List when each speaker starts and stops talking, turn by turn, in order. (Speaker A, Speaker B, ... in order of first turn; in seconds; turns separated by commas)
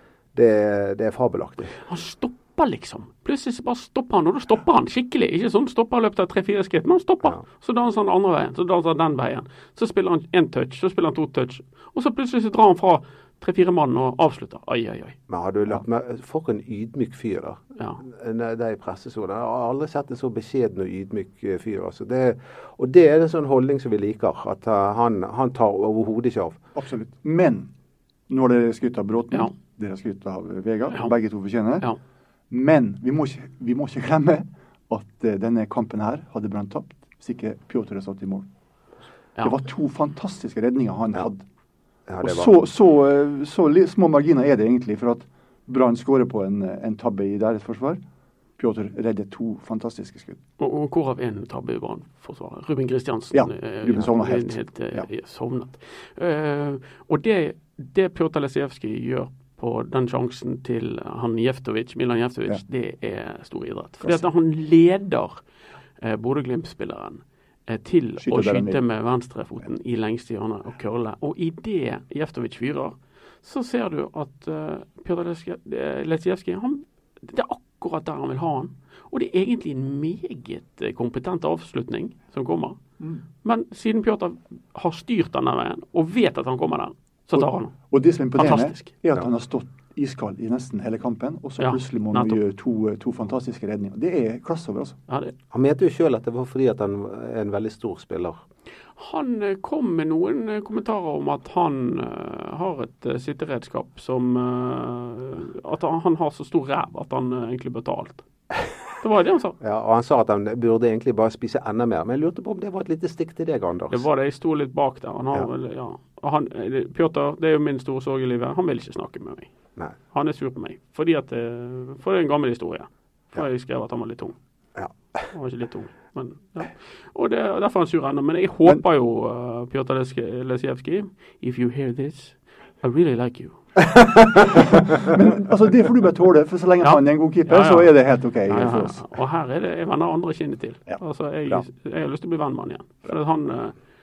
Speaker A: 0.3-1.8, Speaker B: 1.9-15.2, Speaker A: 15.3-26.6, Speaker C: 26.8-27.7, Speaker C: 28.3-31.9, Speaker C: 32.5-38.5, Speaker C: 39.4-41.4, Speaker A: 42.1-42.5, Speaker C: 42.2-48.0, Speaker C: 48.6-50.4, Speaker B: 50.6-65.4, Speaker C: 53.3-55.1, Speaker B: 66.0-82.8, Speaker C: 68.2-68.8, Speaker B: 83.4-87.7, Speaker C: 87.4-95.0, Speaker B: 88.4-88.9, Speaker B: 91.6-92.4, Speaker B: 95.1-95.3, Speaker A: 95.5-98.4, Speaker B: 99.0-108.2, Speaker B: 109.0-109.6, Speaker A: 109.6-114.1, Speaker B: 113.9-119.5, Speaker B: 120.1-124.4, Speaker A: 124.8-125.3, Speaker B: 125.3-133.6, Speaker A: 134.0-134.4, Speaker C: 134.5-139.1, Speaker B: 136.8-143.8, Speaker C: 140.9-141.7